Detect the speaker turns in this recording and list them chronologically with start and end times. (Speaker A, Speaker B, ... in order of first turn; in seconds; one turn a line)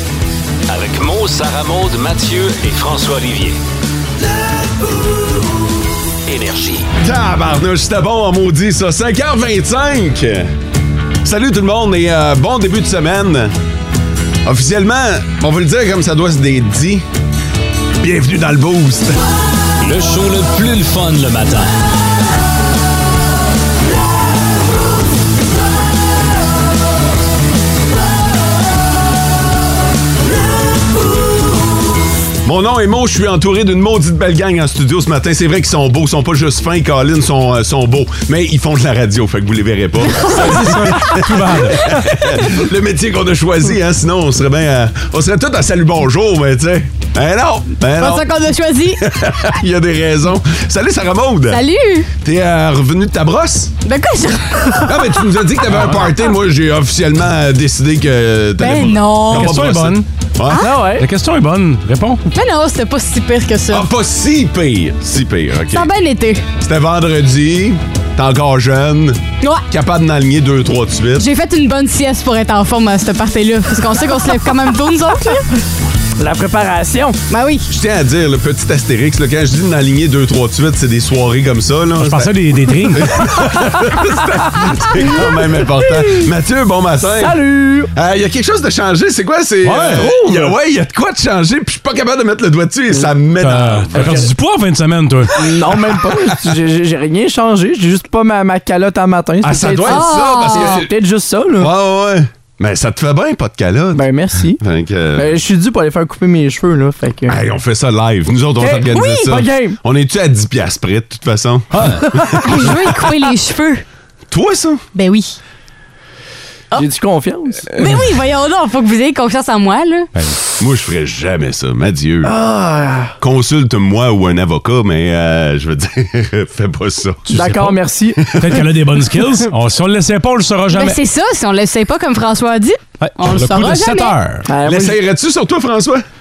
Speaker A: 0.7-3.6
Speaker A: 6.3-6.9
Speaker B: 7.0-10.5
Speaker B: 11.2-13.5
Speaker B: 14.4-17.0
Speaker B: 18.0-19.2
Speaker A: 19.8-21.7
Speaker B: 32.4-48.3
Speaker C: 40.2-42.0
Speaker D: 48.0-49.0
Speaker B: 49.0-51.6
Speaker D: 51.5-52.1
Speaker B: 52.2-53.7
Speaker D: 53.8-54.9
Speaker B: 54.8-60.7
Speaker D: 58.6-59.6
Speaker C: 59.3-60.0
Speaker E: 60.6-61.0
Speaker C: 61.0-62.2
Speaker D: 62.3-63.9
Speaker B: 63.7-65.9
Speaker D: 65.7-66.4
Speaker B: 66.6-71.2
Speaker D: 71.2-75.5
Speaker E: 76.2-77.2
Speaker D: 77.3-77.7
Speaker B: 77.7-82.3
Speaker C: 82.0-83.2
Speaker B: 82.9-94.2
Speaker E: 85.8-86.2
Speaker E: 87.2-87.9
Speaker C: 89.6-90.5
Speaker C: 93.4-95.3
Speaker E: 95.4-101.7
Speaker B: 99.4-100.9
Speaker D: 99.9-100.8
Speaker B: 101.6-105.3
Speaker E: 103.9-104.6
Speaker E: 105.2-107.4
Speaker B: 107.2-112.7
Speaker E: 108.6-109.8
Speaker D: 108.9-109.2
Speaker C: 111.7-112.1
Speaker D: 112.4-113.8
Speaker B: 114.3-114.8
Speaker D: 114.9-115.4
Speaker E: 116.7-117.6
Speaker D: 117.7-120.1
Speaker B: 120.6-122.3
Speaker E: 122.2-123.1
Speaker B: 123.2-127.2
Speaker C: 127.3-127.7
Speaker E: 127.3-128.6
Speaker C: 128.3-131.0
Speaker D: 130.7-134.1
Speaker C: 133.0-134.5
Speaker E: 134.5-135.0
Speaker B: 134.6-136.0